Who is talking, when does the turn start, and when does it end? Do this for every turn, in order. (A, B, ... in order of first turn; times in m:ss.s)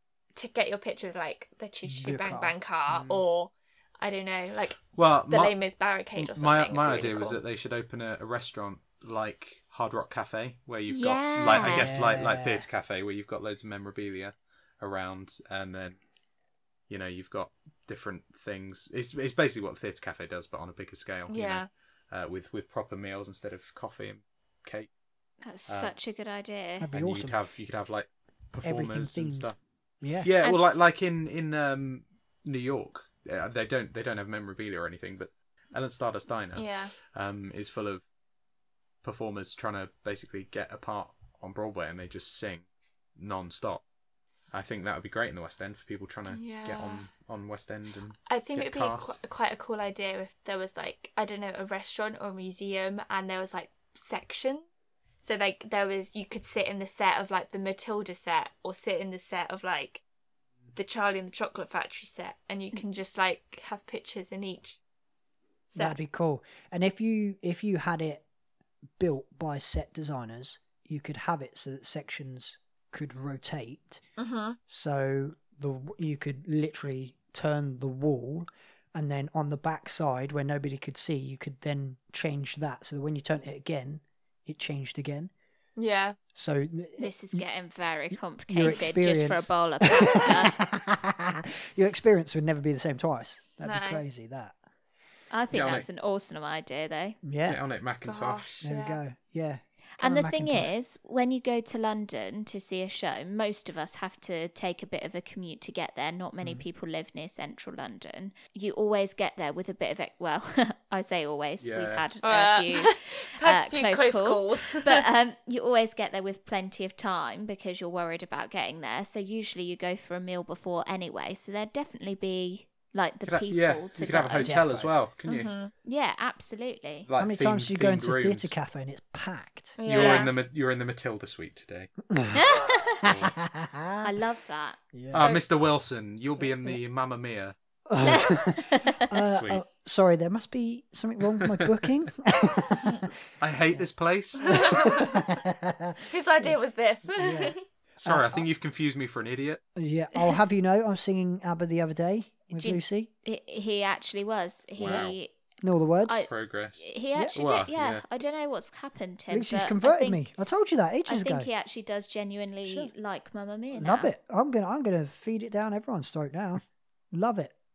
0:00.4-0:07.4 A
0:01.8-0:02.5 B
0:04.9-0:05.6 C
0:06.2-0:16.0 C
0:10.9-0:12.1 D
0:11.4-0:12.7 B
0:16.9-0:24.9 C
0:21.3-0:21.7 A
0:25.4-0:26.9 D
0:25.7-0:25.9 C
0:26.8-0:27.4 B
0:26.9-0:29.6 C
0:28.6-0:30.3 B
0:30.2-0:38.0 C
0:36.5-0:36.9 A
0:39.0-0:42.6 C
0:43.2-0:43.8 C
0:44.5-0:49.2 C
0:46.3-0:47.0 A
0:48.3-0:54.6 A
0:55.2-1:00.0 A
1:00.7-1:04.8 A
1:05.7-1:08.2 B
1:09.0-1:14.0 B
1:14.2-1:14.6 A
1:14.7-1:25.3 B
1:25.8-1:26.2 A
1:26.3-1:27.4 B
1:27.0-1:30.5 D
1:28.1-1:34.6 B
1:33.6-1:34.0 A
1:35.3-1:37.2 D
1:35.5-1:35.9 C
1:37.2-1:37.6 B
1:37.4-1:38.6 C
1:38.0-1:39.0 A
1:38.6-1:40.7 B
1:40.0-2:04.6 D
1:51.6-1:52.0 C
1:52.2-1:55.0 A
2:03.3-2:05.5 C
2:04.4-2:04.9 B
2:05.3-2:05.7 A
2:05.8-2:07.1 D
2:07.0-2:08.5 C
2:07.2-2:10.2 B
2:09.8-2:10.3 A
2:09.8-2:11.9 C
2:12.1-2:14.1 B
2:12.4-2:13.0 D
2:13.0-2:13.4 C
2:14.0-2:14.8 D
2:14.9-2:15.3 B
2:15.1-2:17.5 C
2:15.1-2:15.4 A
2:16.4-2:16.8 B
2:17.9-2:23.0 B
2:18.0-2:19.0 D
2:19.2-2:19.6 C
2:21.4-2:21.7 C
2:23.4-2:24.6 C
2:24.4-2:25.2 A
2:24.5-2:26.6 B
2:26.1-2:27.6 A
2:27.1-2:28.5 B
2:28.0-2:29.6 C
2:29.8-2:33.1 B
2:32.5-2:35.4 D
2:34.8-2:35.1 C
2:35.6-2:36.3 B
2:36.0-2:40.2 D
2:36.3-2:38.0 C
2:39.3-2:41.5 B
2:41.0-2:44.1 D
2:42.6-2:42.9 B
2:43.7-2:47.5 B